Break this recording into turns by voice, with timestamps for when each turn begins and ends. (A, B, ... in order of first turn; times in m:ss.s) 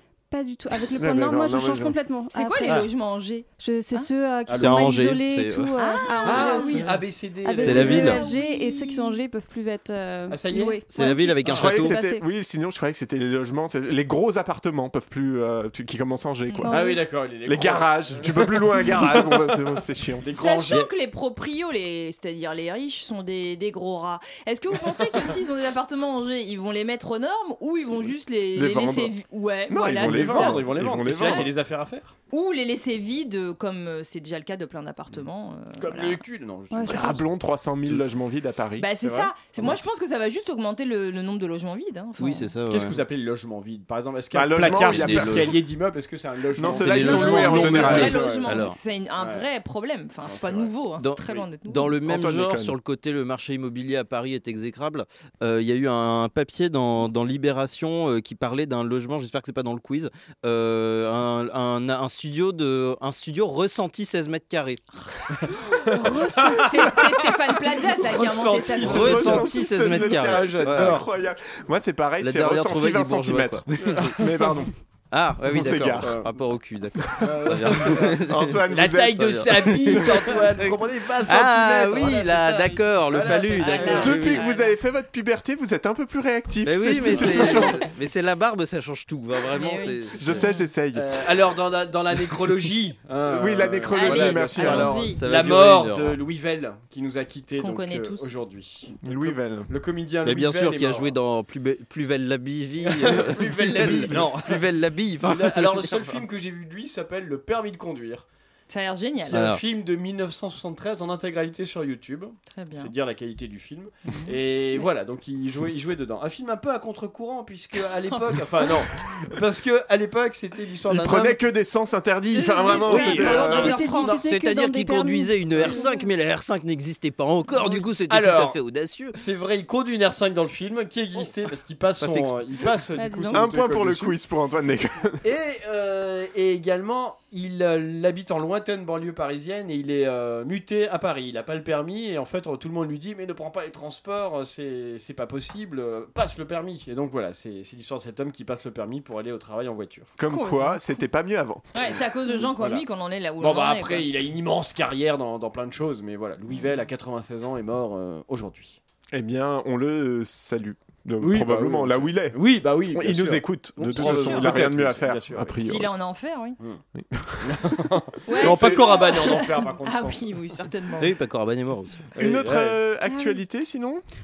0:00.3-0:02.9 A
0:01.0-0:02.0 B
0:02.3-0:04.1 C
0:03.6-0:12.2 A
0:04.5-0:04.9 D
0:04.6-0:05.7 E
0:05.8-0:07.0 C
0:06.2-0:08.2 D
0:07.6-0:09.2 C
0:07.6-0:08.2 E
0:10.3-0:10.9 D
0:10.9-0:12.0 E
0:11.4-0:11.7 D
0:11.5-0:16.8 B
0:16.6-0:17.0 A
0:16.7-0:19.6 D
0:17.5-0:20.2 B
0:20.2-0:20.9 D
0:20.3-0:30.6 C
0:28.6-0:29.1 B
0:29.7-0:31.5 B
0:29.9-0:32.2 D
0:31.2-0:31.5 C
0:32.3-0:36.2 C
0:35.8-0:37.3 D
0:36.7-0:37.1 A
0:36.9-0:38.9 B
0:38.8-0:42.5 C
0:39.0-0:39.7 D
0:42.2-0:43.0 E
0:42.7-0:49.5 D
0:44.3-0:45.6 B
0:44.6-0:45.6 E
0:46.6-0:48.2 B
0:46.6-0:48.8 E
0:47.0-0:52.0 C
0:50.2-0:50.7 D
0:51.0-1:04.8 E
0:52.0-0:52.8 B
1:05.4-1:11.1 D
1:06.0-1:06.7 A
1:06.1-1:09.4 C
1:08.8-1:14.7 B
1:08.8-1:11.0 E
1:12.2-1:14.5 E
1:13.8-1:14.1 D
1:15.1-1:18.6 E
1:15.5-1:16.1 B
1:15.8-1:16.3 D
1:17.2-1:24.4 D
1:18.1-1:20.1 B
1:19.1-1:24.5 E
1:23.6-1:24.7 C
1:24.0-1:27.8 B
1:26.6-1:30.5 E
1:27.0-1:27.3 D
1:27.2-1:27.8 C
1:29.5-1:30.7 C
1:30.2-1:31.2 B
1:30.9-1:41.2 D
1:33.3-1:35.1 B
1:33.9-1:35.2 C
1:34.6-1:36.2 E
1:37.6-1:38.3 C
1:39.0-1:39.7 B
1:40.2-1:46.2 E
1:42.8-1:44.7 D
1:45.2-1:48.3 D
1:48.7-1:49.5 C
1:49.3-2:01.4 D
1:49.3-1:49.6 E
1:52.5-1:52.9 C
2:00.9-2:03.8 B
2:02.5-2:03.8 D
2:02.6-2:04.2 C
2:02.8-2:05.9 A
2:03.0-2:09.2 E
2:05.6-2:05.9 D
2:08.1-2:08.6 D
2:09.1-2:14.2 D
2:12.0-2:12.4 E
2:13.0-2:13.4 A
2:13.3-2:15.2 B
2:15.2-2:30.1 D
2:30.2-2:31.7 B
2:30.3-2:30.8 C
2:31.8-2:34.1 C
2:31.8-2:32.8 D
2:33.4-2:38.8 D
2:39.1-2:42.4 B
2:41.2-2:45.6 D
2:42.9-2:45.9 B
2:43.9-2:44.5 C
2:45.6-2:46.6 C
2:47.0-2:47.6 B
2:47.4-2:50.3 D
2:48.3-2:51.2 C
2:48.4-2:49.0 B
2:51.0-2:52.1 E
2:52.2-2:52.8 D
2:52.2-2:54.0 B
2:53.1-2:53.4 A